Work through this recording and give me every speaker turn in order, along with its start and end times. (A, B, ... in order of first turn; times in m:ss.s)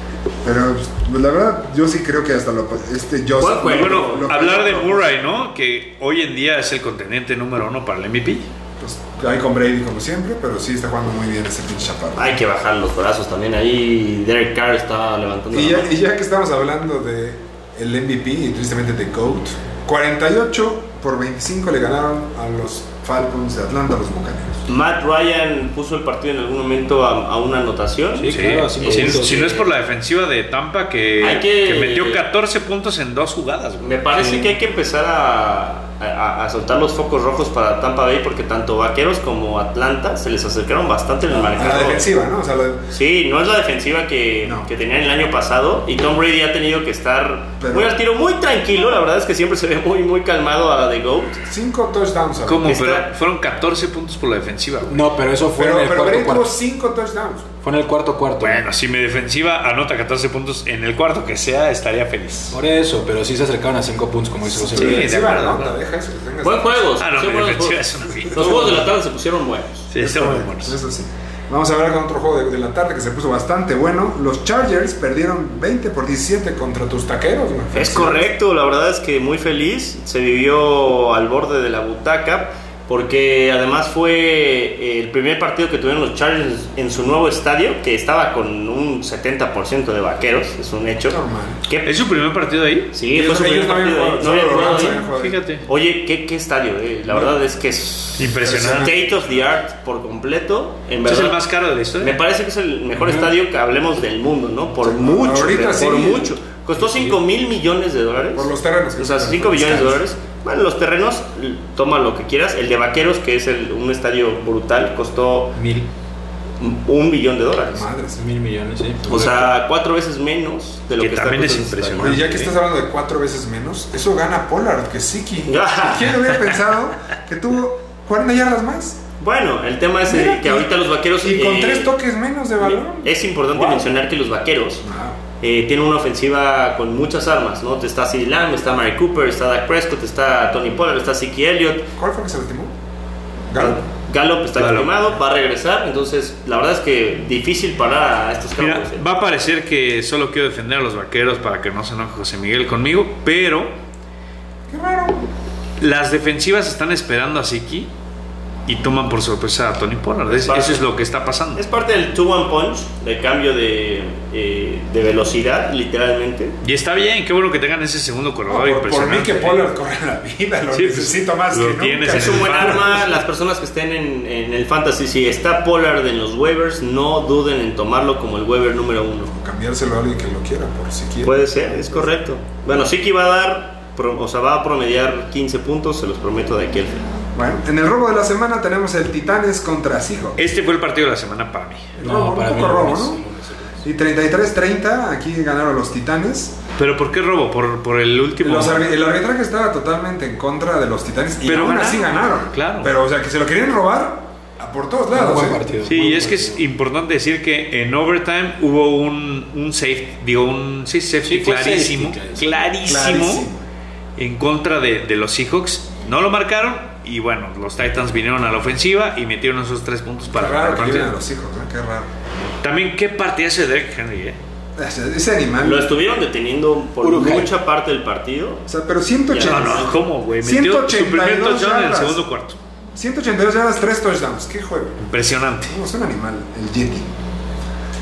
0:00.4-0:05.1 A
0:03.4-0:05.1 B
0:03.7-0:08.5 C
0:08.8-0:12.4 A
0:12.2-0:15.9 B
0:15.5-0:24.7 A
0:24.7-0:29.7 B
0:28.2-0:29.4 D
0:28.3-0:34.5 C
0:31.2-0:32.2 B
0:33.8-0:42.1 B
0:41.4-0:42.8 A
0:42.9-0:51.4 B
0:47.6-0:48.0 A
0:51.5-0:52.8 A
0:52.5-0:55.0 C
0:52.7-0:53.1 B
0:54.9-0:56.5 D
0:55.6-0:57.5 A
0:57.6-0:58.6 D
0:58.4-1:02.6 C
1:02.5-1:05.2 D
1:04.4-1:06.9 A
1:04.7-1:05.8 C
1:06.4-1:09.9 B
1:07.0-1:08.9 C
1:08.4-1:08.8 A
1:09.9-1:10.8 C
1:10.0-1:18.3 A
1:17.7-1:32.0 B
1:31.1-1:31.6 A
1:31.8-1:32.9 C
1:32.9-1:35.1 B
1:33.1-1:35.4 A
1:35.0-1:35.6 C
1:35.6-1:41.5 B
1:37.1-1:37.3 A
1:38.2-1:38.9 C
1:38.4-1:39.1 A
1:41.0-1:42.2 C
1:42.0-1:55.6 B
1:44.8-1:46.4 A
1:48.4-1:50.0 A
1:55.6-1:55.9 D
1:56.6-1:57.9 B
1:57.7-1:58.2 A
1:58.2-1:59.5 D
1:59.1-2:02.2 B
2:01.0-2:02.5 C
2:02.0-2:09.0 A
2:05.5-2:06.5 B
2:09.2-2:11.9 B
2:10.1-2:13.9 A
2:12.6-2:14.8 B
2:14.8-2:15.2 A
2:15.4-2:21.9 B
2:22.0-2:22.7 A
2:23.5-2:23.8 A
2:23.6-2:29.0 B
2:24.6-2:24.9 C
2:28.6-2:33.7 C
2:34.7-2:35.3 A
2:35.8-2:37.9 C
2:38.7-2:41.6 C
2:40.3-2:40.8 B
2:41.6-2:46.6 B
2:46.6-2:49.7 C
2:48.5-2:53.1 A
2:50.7-2:53.1 C
2:52.1-2:59.3 B
2:59.3-3:02.1 A
3:01.2-3:07.0 B
3:07.4-3:10.4 A
3:10.4-3:11.9 C
3:12.0-3:13.2 A
3:12.0-3:13.9 D
3:13.8-3:16.6 A
3:16.8-3:18.9 C
3:18.4-3:25.7 A
3:21.5-3:22.9 C
3:25.1-3:26.6 D
3:25.8-3:33.4 C
3:31.2-3:32.5 D
3:32.9-3:33.6 A
3:34.2-3:41.1 C
3:40.3-3:42.1 A
3:42.6-3:44.4 C
3:44.8-3:46.0 A
3:45.6-3:48.7 B
3:47.0-3:47.5 D
3:48.7-3:52.2 A
3:49.3-3:50.0 B
3:49.4-3:52.6 C
3:53.0-3:55.0 A
3:55.0-3:55.8 C
3:55.7-3:57.2 A